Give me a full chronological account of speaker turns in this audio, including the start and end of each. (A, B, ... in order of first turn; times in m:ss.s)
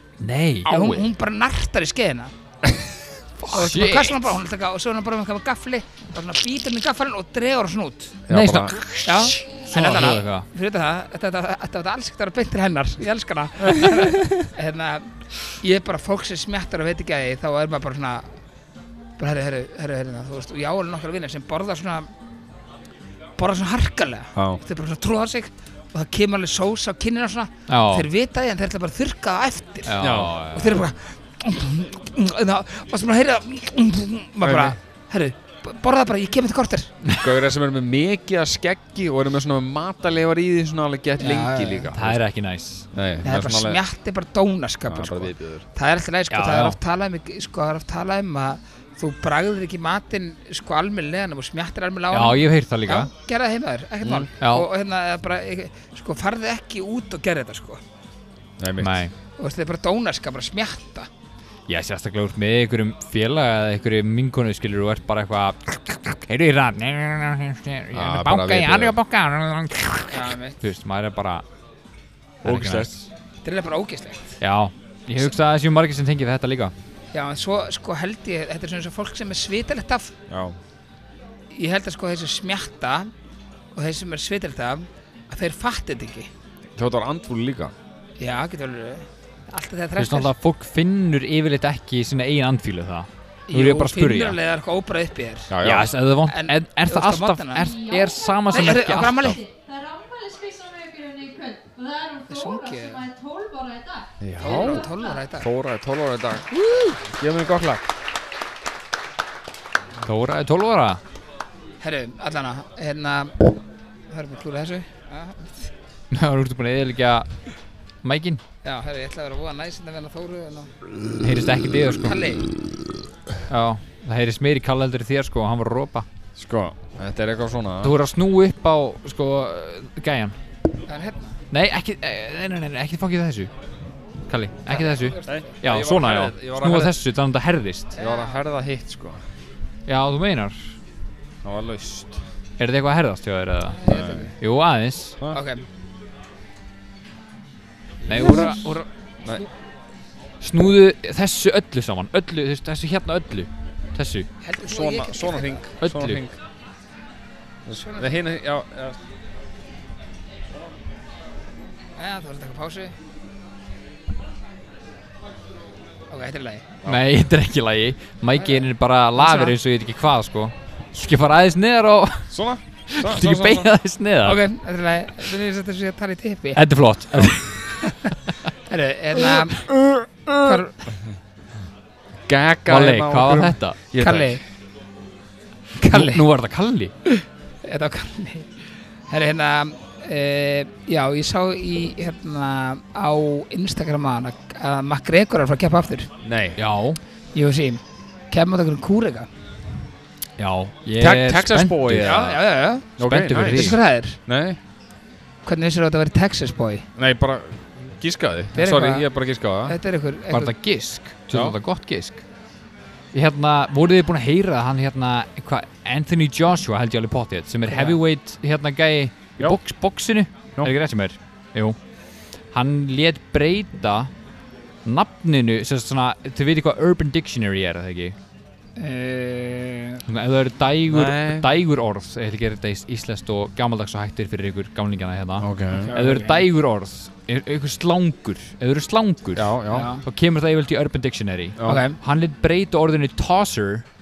0:00.2-0:01.0 A
0:00.6-0:02.3 B
0:03.4-0:04.3 A
0:03.4-0:08.2 B
0:08.3-0:08.8 C
0:08.3-0:10.5 A
0:09.0-0:18.3 B
0:19.2-0:22.1 B
0:23.4-0:36.9 B
0:27.7-0:28.1 A
0:29.8-0:30.8 A
0:30.0-0:30.4 C
0:34.4-0:34.8 C
0:37.2-0:42.2 C
0:41.2-0:41.9 B
0:41.9-0:42.9 A
0:42.9-0:43.8 C
0:43.2-0:57.8 B
0:44.9-0:45.6 C
0:46.3-0:46.8 A
0:52.1-0:53.1 A
0:54.0-0:54.3 C
0:54.4-0:54.7 A
0:58.6-0:59.0 C
0:58.8-0:59.1 A
0:59.4-1:01.1 B
1:01.7-1:11.4 A
1:07.9-1:09.0 C
1:10.1-1:10.6 B
1:12.4-1:13.0 A
1:12.4-1:12.9 C
1:13.4-1:14.4 B
1:14.4-1:16.7 A
1:17.1-1:20.1 B
1:20.3-1:20.6 C
1:21.5-1:23.1 B
1:23.7-1:26.3 B
1:26.7-1:27.7 C
1:28.2-1:30.3 B
1:30.0-1:34.4 A
1:33.5-1:35.6 B
1:35.5-1:35.9 C
1:35.6-1:39.4 A
1:36.2-1:37.8 B
1:37.7-1:38.4 D
1:38.5-1:39.4 B
1:39.2-1:44.1 D
1:42.3-1:43.1 B
1:44.2-1:46.5 C
1:44.4-1:45.5 B
1:44.8-1:45.2 D
1:46.6-1:47.0 B
1:47.0-1:47.8 C
1:50.0-1:51.0 A
1:51.8-1:53.5 B
1:54.1-1:55.7 B
1:56.1-1:57.3 A
1:58.0-1:58.4 A
1:58.6-2:00.7 B
2:01.2-2:02.2 A
2:02.0-2:02.4 B
2:03.5-2:06.0 A
2:06.4-2:07.9 C
2:07.8-2:10.3 A
2:10.9-2:11.4 B
2:11.5-2:13.5 A
2:14.3-2:17.9 A
2:14.7-2:15.5 B
2:15.3-2:17.0 C
2:17.9-2:18.4 B
2:18.0-2:19.2 C
2:19.9-2:20.7 A
2:21.4-2:22.2 C
2:22.6-2:25.2 A
2:23.8-2:24.3 B
2:23.9-2:24.3 C
2:25.3-2:25.6 B
2:28.0-2:28.8 A
2:28.1-2:28.6 B
2:28.2-2:28.5 C
2:30.4-2:34.3 A
2:34.4-2:35.6 B
2:34.6-2:36.4 C
2:35.8-2:36.2 A
2:37.6-2:39.0 C
2:37.8-2:38.2 B
2:42.0-2:42.9 B
2:46.1-2:46.7 B
2:46.8-2:52.3 A
2:48.3-2:49.6 B
2:52.3-2:53.7 C
2:52.9-2:54.4 A
2:54.2-2:56.6 B
2:56.5-2:58.1 A
2:57.8-2:58.1 B
2:58.7-2:59.7 B
2:59.2-3:00.6 A
3:00.4-3:00.8 B
3:02.3-3:04.4 C
3:02.7-3:03.8 A
3:04.0-3:04.4 B
3:05.8-3:06.2 B
3:05.9-3:06.9 A
3:07.6-3:08.5 B
3:09.1-3:16.1 B
3:16.2-3:16.6 C
3:16.6-3:17.0 A
3:17.3-3:19.3 B
3:20.4-3:22.3 A
3:21.0-3:22.4 C
3:22.0-3:22.9 B
3:23.0-3:23.8 A
3:23.0-3:24.6 C
3:23.4-3:24.2 B
3:25.4-3:26.8 B
3:27.0-3:29.8 C
3:28.5-3:29.0 B
3:29.6-3:30.5 B
3:30.3-3:32.2 A
3:31.3-3:31.6 C
3:33.1-3:41.8 A
3:37.7-3:38.0 B
3:42.5-3:44.1 A
3:44.8-3:48.2 A
3:48.8-3:50.0 B
3:50.1-4:03.8 A
3:50.9-3:51.5 C
3:55.4-3:55.9 C
3:55.8-3:56.4 B
3:59.3-3:59.9 C
3:59.7-4:00.0 B
4:01.6-4:01.8 C
4:01.6-4:02.0 B